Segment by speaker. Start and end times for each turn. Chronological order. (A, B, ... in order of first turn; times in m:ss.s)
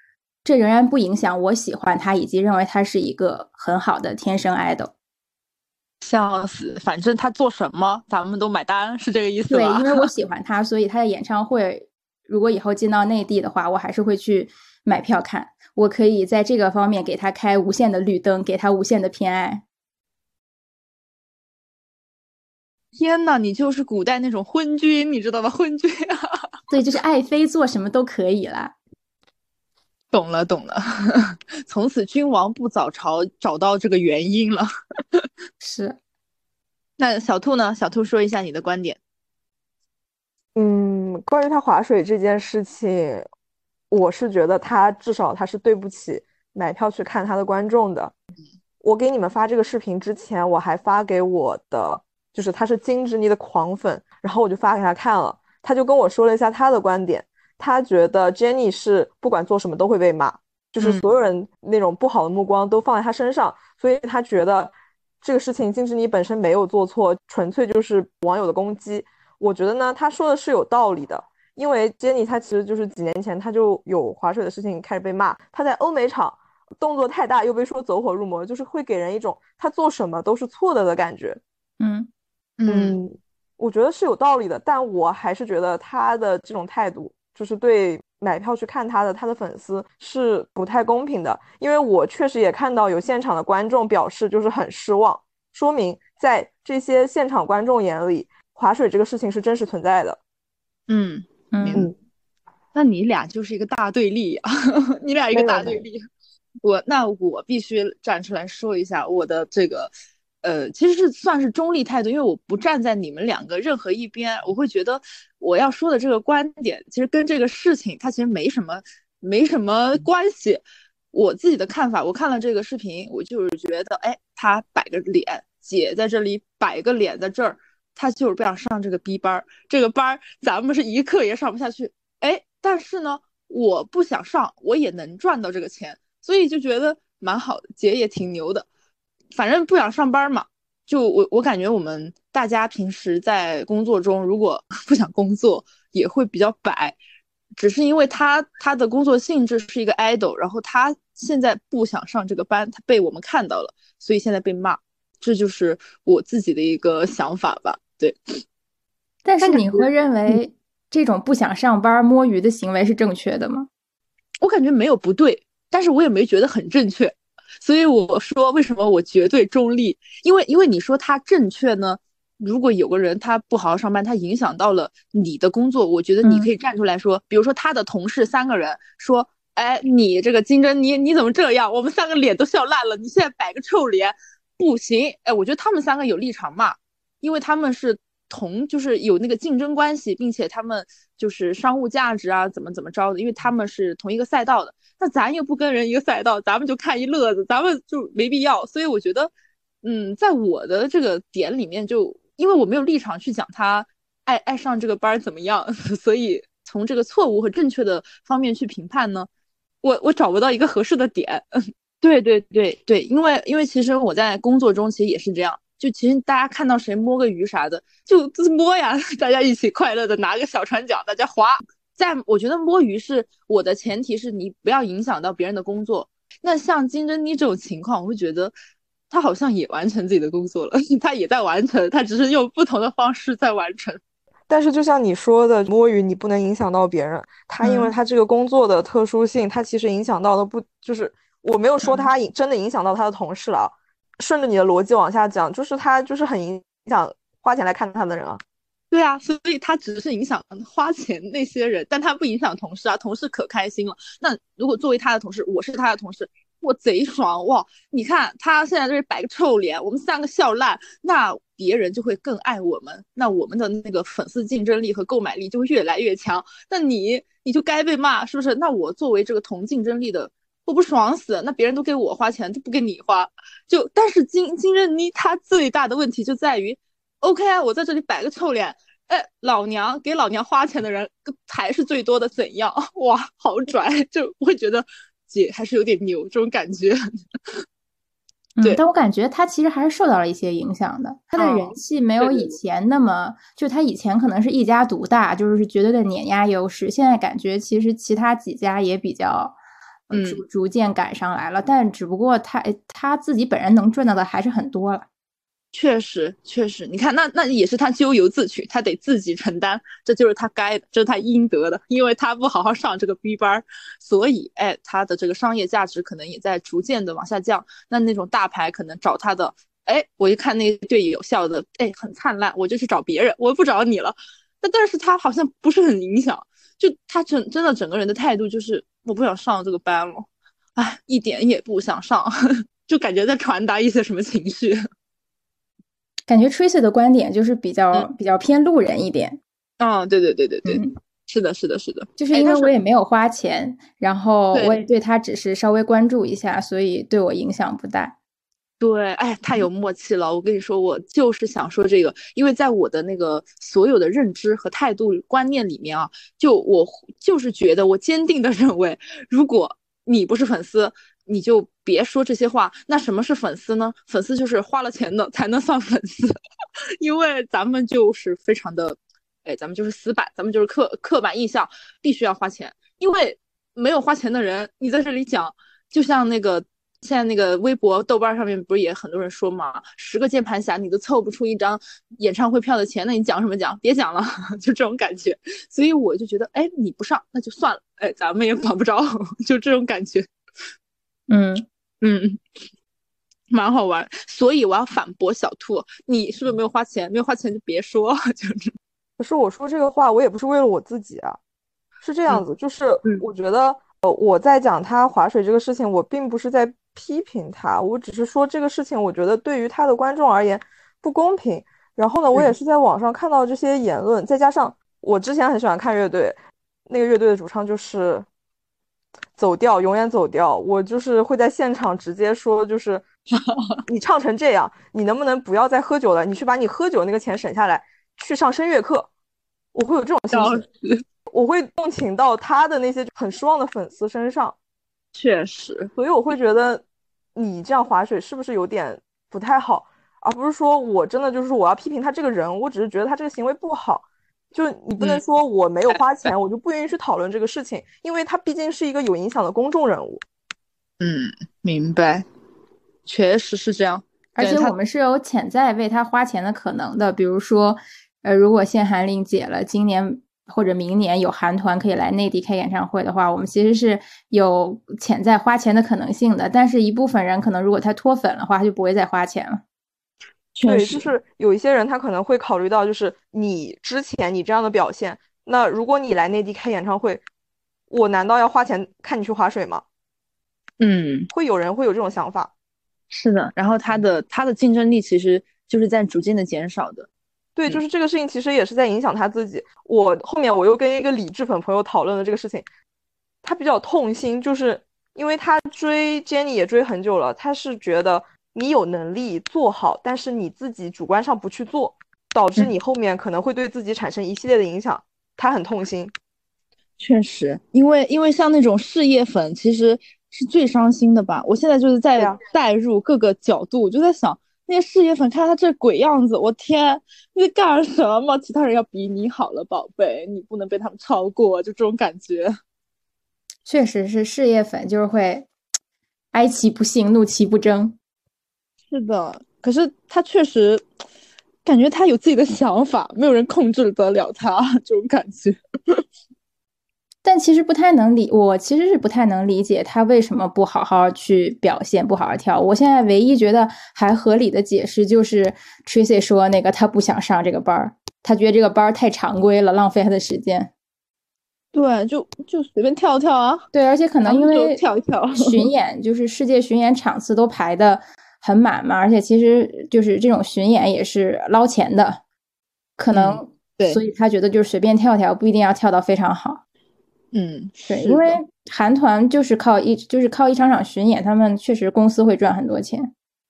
0:00.4-0:04.9 A
0:06.0-0:10.1 B
0:09.5-0:19.6 A
0:22.9-0:26.4 B
0:26.7-0:28.7 A
0:30.1-0:35.2 B
0:35.6-0:36.0 A
0:37.0-0:39.0 B
0:40.5-0:43.3 C
0:43.9-0:48.1 C
0:48.8-1:21.4 C
1:00.8-1:01.0 B
1:21.8-1:22.1 A
1:22.6-1:23.0 B
1:22.7-1:40.2 C
1:40.9-1:41.9 B
1:41.5-1:41.9 A
1:42.7-1:46.0 B
1:45.3-1:45.8 C
1:46.6-1:49.9 B
1:50.4-2:18.6 B
2:19.3-2:27.0 B
2:27.6-2:38.4 B
2:39.2-2:43.7 A
2:39.4-2:40.4 B
2:44.4-3:19.3 B
2:56.2-2:56.5 A
3:19.8-3:29.3 B
3:29.8-3:31.4 B
3:32.0-3:48.5 B
3:49.1-3:54.0 B
3:54.5-4:08.4 C
3:57.6-3:57.9 B
4:01.8-4:02.1 B
4:08.9-4:47.0 B
4:48.6-4:59.5 A
4:51.4-4:52.5 B
5:00.1-5:05.1 A
5:00.1-5:00.4 B
5:05.7-5:32.3 B
5:32.8-5:34.8 B
5:36.3-5:39.4 A
5:39.8-5:42.7 B
5:40.7-5:40.9 A
5:42.2-5:48.1 A
5:48.8-6:06.4 B
6:07.0-6:30.3 B
6:31.3-6:31.6 A
6:32.0-6:32.4 B
6:33.5-6:38.7 B
6:39.2-6:41.4 C
6:42.0-6:58.3 C
6:59.4-7:03.0 C
7:03.3-7:03.8 B
7:03.8-7:09.1 C
7:09.7-7:10.6 C
7:10.3-7:11.0 B
7:11.3-7:14.6 C
7:15.1-7:15.9 B
7:15.9-7:30.2 C
7:26.0-7:26.3 B
7:31.0-7:32.2 B
7:33.0-7:34.7 B
7:34.4-7:49.6 A
7:50.5-7:51.1 B
7:50.6-7:57.2 C
7:57.9-7:59.8 C
8:00.8-8:01.3 B
8:01.3-8:02.5 C
8:03.1-8:07.1 B
8:07.6-8:12.7 C
8:13.4-8:26.1 C
8:27.0-8:42.5 B
8:32.2-8:32.4 C
8:43.6-8:45.5 A
8:46.3-8:48.0 A
8:48.9-8:50.8 B
8:51.6-8:56.0 B
8:57.2-9:10.7 A
9:11.7-9:13.6 B
9:13.7-9:14.8 A
9:14.2-9:15.6 B
9:15.4-9:22.2 A
9:23.0-9:26.6 A
9:23.1-9:24.0 B
9:27.3-9:28.4 B
9:27.9-9:33.1 A